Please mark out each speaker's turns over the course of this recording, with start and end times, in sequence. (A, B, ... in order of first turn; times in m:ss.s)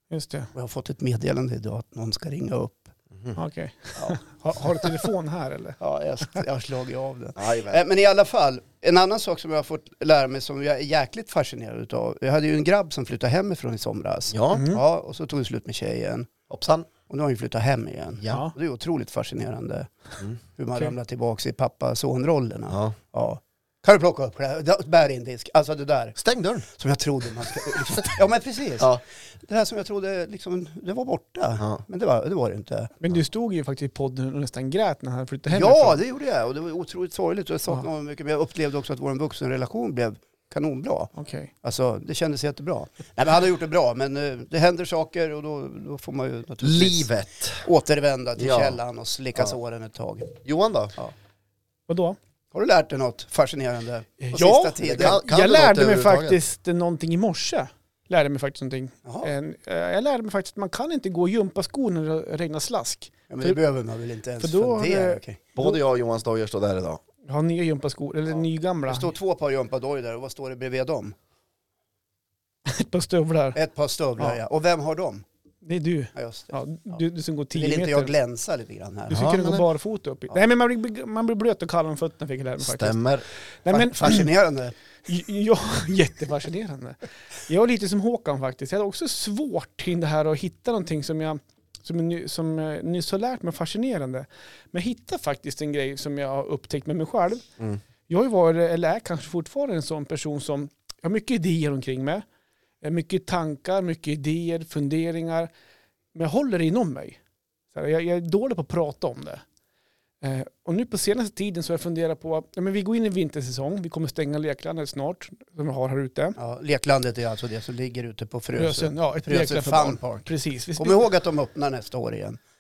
0:00.1-0:00.5 A
0:00.5-0:02.9 B
0:03.4-0:05.8 A
0:05.8-0:16.3 B
0:07.4-0:07.8 C
0:14.3-0:14.6 C
0:14.5-0:14.8 A
0:16.5-0:16.9 C
0:17.1-0:19.9 B
0:20.5-0:32.9 B
0:26.2-0:26.6 C
0:33.0-0:36.0 A
0:35.5-0:47.1 B
0:41.2-0:41.5 A
0:46.6-0:47.6 C
0:47.6-0:50.3 B
0:48.4-0:48.8 C
0:50.4-0:50.9 C
0:51.9-0:52.2 A
0:52.5-0:55.2 B
0:54.2-1:03.6 A
0:55.0-0:56.4 C
0:59.0-0:59.3 B
1:03.3-1:05.4 B
1:04.4-1:05.8 A
1:05.6-1:07.0 C
1:07.2-1:09.1 A
1:08.9-1:11.1 B
1:12.6-1:13.6 A
1:13.5-1:15.2 B
1:15.6-1:18.1 A
1:16.1-1:17.0 B
1:17.5-1:19.2 B
1:19.1-1:23.1 A
1:19.1-1:19.6 C
1:22.6-1:23.2 C
1:23.6-1:24.3 A
1:23.7-1:24.7 B
1:25.0-1:37.4 A
1:38.1-1:42.2 A
1:42.8-1:45.5 A
1:46.1-1:47.2 A
1:47.7-1:49.4 A
1:50.2-1:56.4 A
1:56.4-2:02.4 B
1:58.6-2:01.0 A